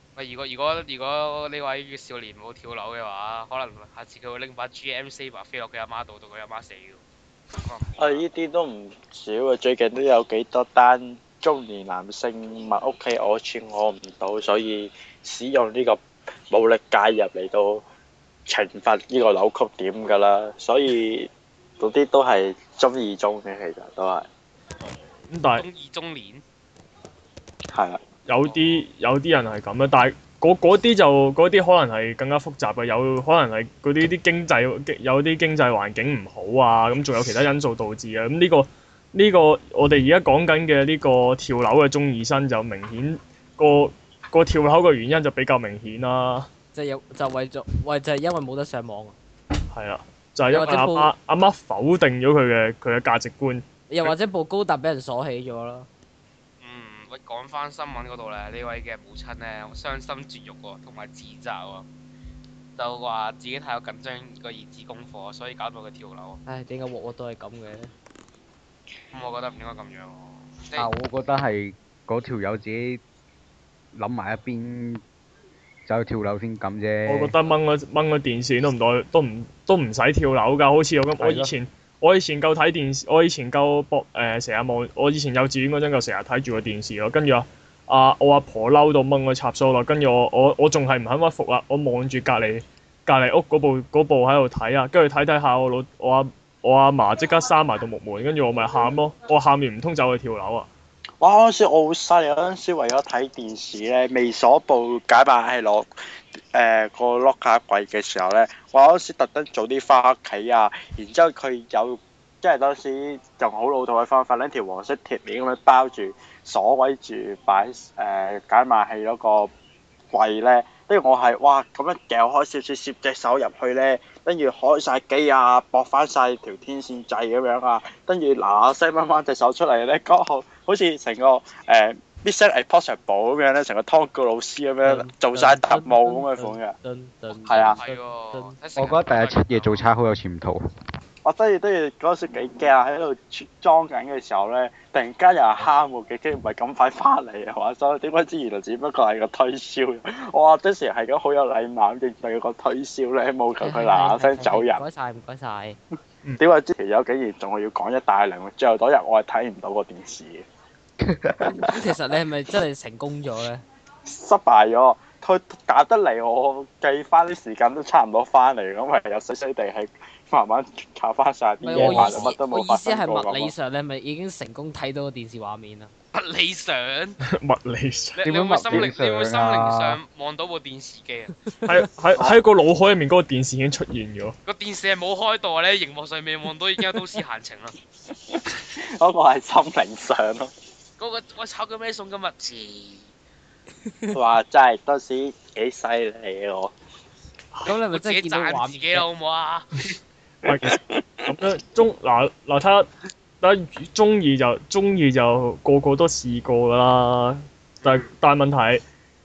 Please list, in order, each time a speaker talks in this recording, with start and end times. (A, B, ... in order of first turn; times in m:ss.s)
0:00.2-0:07.0 A
0:07.6-0:08.2 A
0:08.0-0:17.8 B
0:18.5-0:24.3 B
0:25.3-0:25.7 C
0:25.6-0:26.4 A
0:27.7-0:28.0 B
0:28.3-0:46.5 C
0:28.4-0:28.8 A
0:46.7-0:49.2 D
0:49.7-0:54.1 C
0:50.5-0:51.1 D
0:53.9-0:55.9 D
0:56.6-1:01.9 A
1:02.8-1:06.4 A
1:06.5-1:07.9 D
1:09.1-1:10.9 A
1:10.8-1:13.0 E
1:13.9-1:15.0 E
1:15.9-1:17.4 E
1:17.1-1:40.7 C
1:21.2-1:21.5 E
1:41.2-1:45.9 B
1:46.5-1:59.5 B
2:00.1-2:16.7 B
2:14.8-2:18.6 D
2:17.5-2:17.8 B
2:17.5-2:19.8 A
2:18.8-2:20.6 E
2:21.2-2:34.8 B
2:33.6-2:35.8 D
2:36.4-2:40.4 B
2:41.0-2:41.7 E
2:41.6-2:43.6 D
2:44.1-2:53.5 B
2:51.6-2:55.9 D
2:51.8-2:52.3 C
2:56.1-2:57.2 A
2:57.2-2:58.2 C
2:58.2-3:01.3 A
2:58.2-3:00.0 E
3:01.7-3:04.4 C
3:04.5-3:07.8 A
3:08.3-3:10.5 B
3:11.0-3:13.1 A
3:14.1-3:16.7 B
3:17.6-3:19.1 D
3:17.9-3:19.8 A
3:20.4-3:21.3 B
3:20.4-3:22.9 C
3:23.4-3:28.8 C